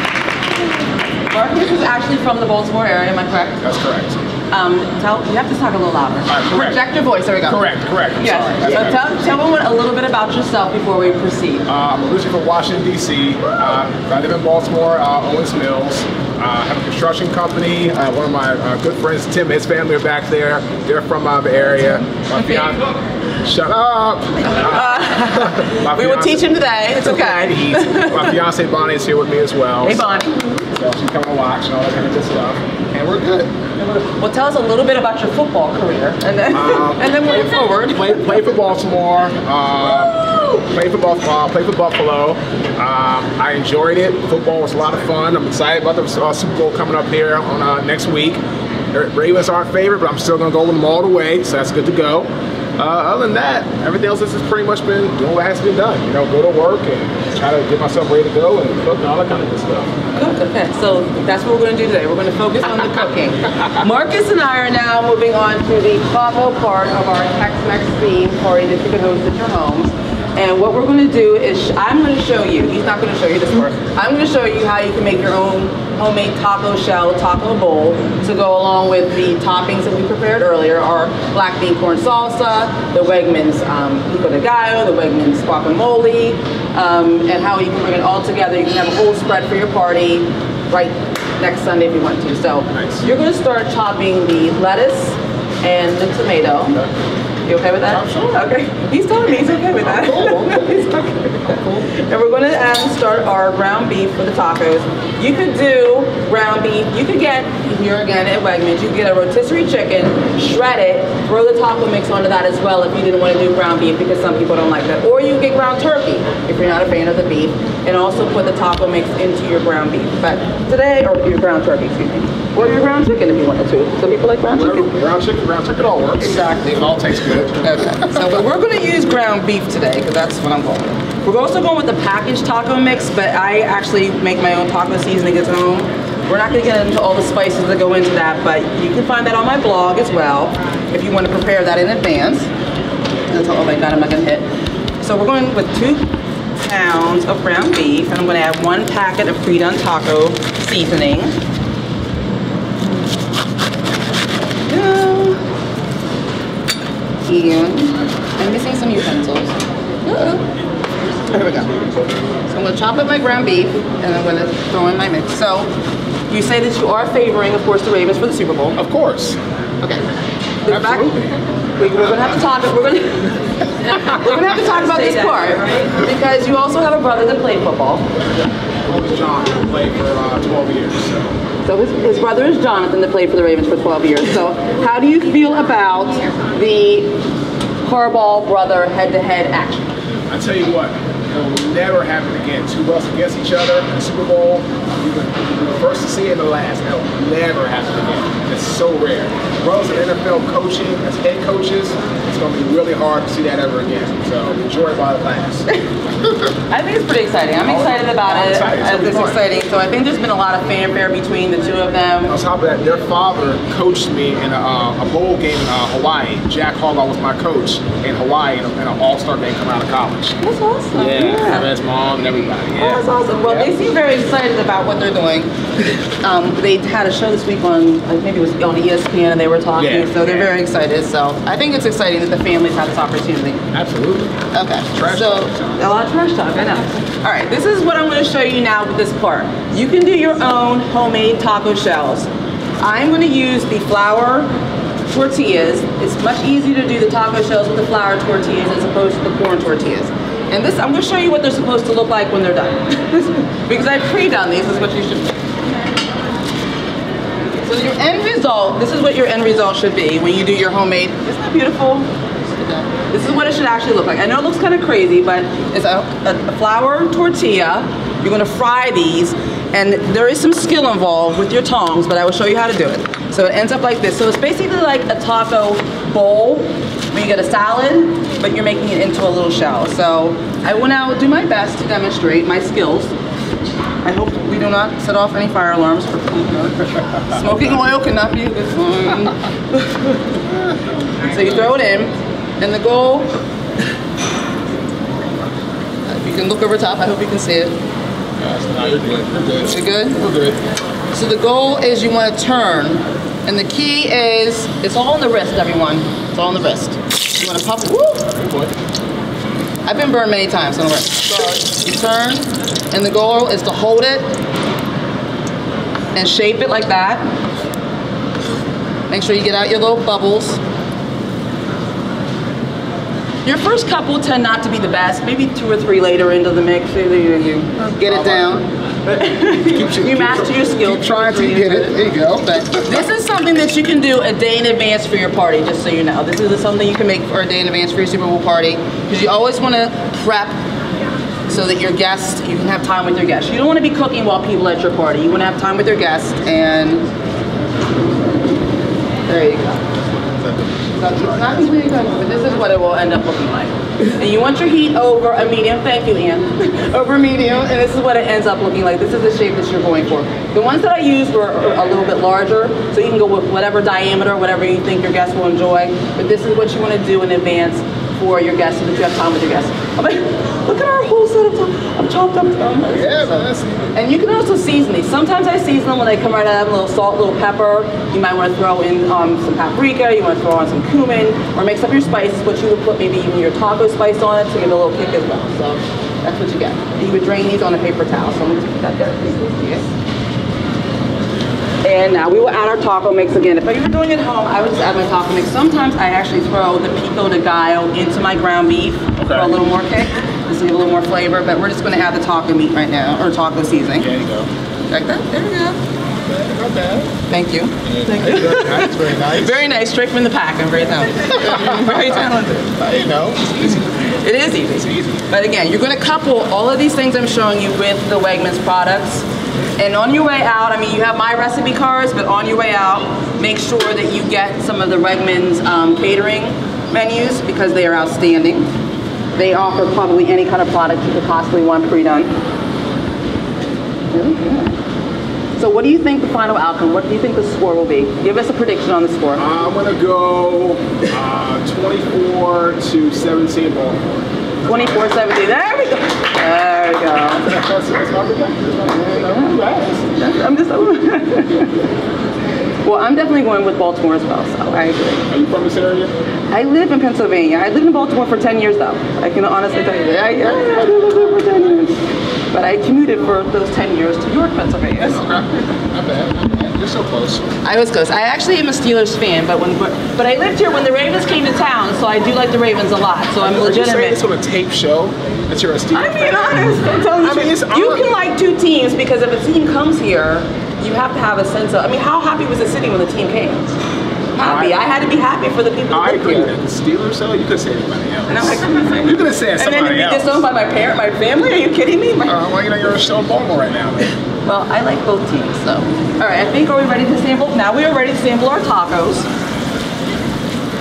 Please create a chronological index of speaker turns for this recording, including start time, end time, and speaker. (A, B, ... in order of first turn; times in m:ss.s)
0:01.3-0:03.6 A
0:03.6-0:04.2 B
0:04.5-0:11.6 A
0:06.3-0:06.8 B
0:07.5-0:09.0 B
0:11.7-0:22.8 B
0:23.4-0:30.1 B
0:24.5-0:28.4 A
0:29.8-0:30.6 A
0:30.7-0:33.5 B
0:33.8-0:38.4 A
0:36.5-0:48.4 B
0:48.9-0:59.9 B
1:00.2-1:36.8 A
1:32.7-1:33.0 B
1:37.5-2:04.9 A
1:37.9-1:38.4 B
1:39.8-1:40.7 B
2:04.5-2:08.2 B
2:06.2-2:06.7 A
2:07.6-2:22.5 A
2:23.3-2:24.5 A
2:25.0-2:31.4 A
2:34.7-2:35.4 A
2:37.3-2:39.5 A
2:40.0-2:40.4 A
2:41.4-2:41.7 A
2:42.5-2:45.7 A
2:46.3-2:48.8 A
2:48.8-2:49.4 B
2:50.6-2:51.2 A
2:50.7-2:51.3 B
2:51.8-2:58.1 A
2:58.9-3:01.4 B
3:01.7-3:07.1 A
3:07.8-3:09.9 A
3:10.3-3:25.7 B
3:26.5-3:32.3 A
3:27.6-3:29.5 B
3:32.3-3:40.4 B
3:40.4-3:41.7 A
3:41.0-3:43.7 B
3:42.8-3:53.6 A
3:49.8-3:50.5 B
3:53.7-3:54.3 B
3:54.5-4:02.3 A
3:54.9-3:55.8 B
4:02.8-4:04.5 A
4:05.1-4:15.4 A
4:17.6-4:43.1 A
4:44.0-4:50.2 A
4:51.2-4:53.3 A
4:56.1-4:57.8 A
4:58.4-5:00.6 B
4:59.7-5:00.2 A
5:01.1-5:08.2 A
5:08.3-5:08.7 B
5:09.9-5:14.3 A
5:16.1-5:17.3 A
5:19.1-5:20.6 A
5:23.4-5:32.0 A
5:27.9-5:28.6 B
5:29.7-5:33.1 B
5:32.6-5:40.6 A
5:41.5-5:47.1 A
5:49.3-5:49.8 A
5:50.9-6:29.9 A
6:12.9-6:13.9 B
6:31.8-6:44.1 A
6:39.2-6:39.6 B
6:44.0-6:44.5 B
6:44.9-6:45.8 A
6:46.3-6:47.1 B
6:47.3-6:52.8 A
6:47.8-6:49.7 B
6:51.4-6:52.0 B
6:52.8-6:54.2 B
6:54.2-6:59.2 A
6:54.9-6:55.2 B
6:59.8-7:08.7 A
7:09.4-7:12.3 A
7:14.1-7:14.8 A
7:15.6-7:19.4 A
7:19.4-7:24.1 B
7:24.7-7:27.6 A
7:24.7-7:25.1 B
7:27.4-7:30.1 B
7:28.9-7:29.6 A
7:30.2-7:31.8 A
7:32.8-7:35.3 A
7:35.3-7:36.1 B
7:36.5-7:42.0 A
7:42.5-7:45.3 A
7:45.0-7:47.5 B
7:47.6-7:54.2 A
7:53.4-7:56.6 B
7:55.9-8:03.7 A
7:57.2-7:58.1 B
8:04.4-8:06.5 A
8:04.4-8:04.8 B
8:05.9-8:10.4 B
8:08.3-8:12.4 A
8:12.3-8:14.1 B
8:14.5-8:19.3 A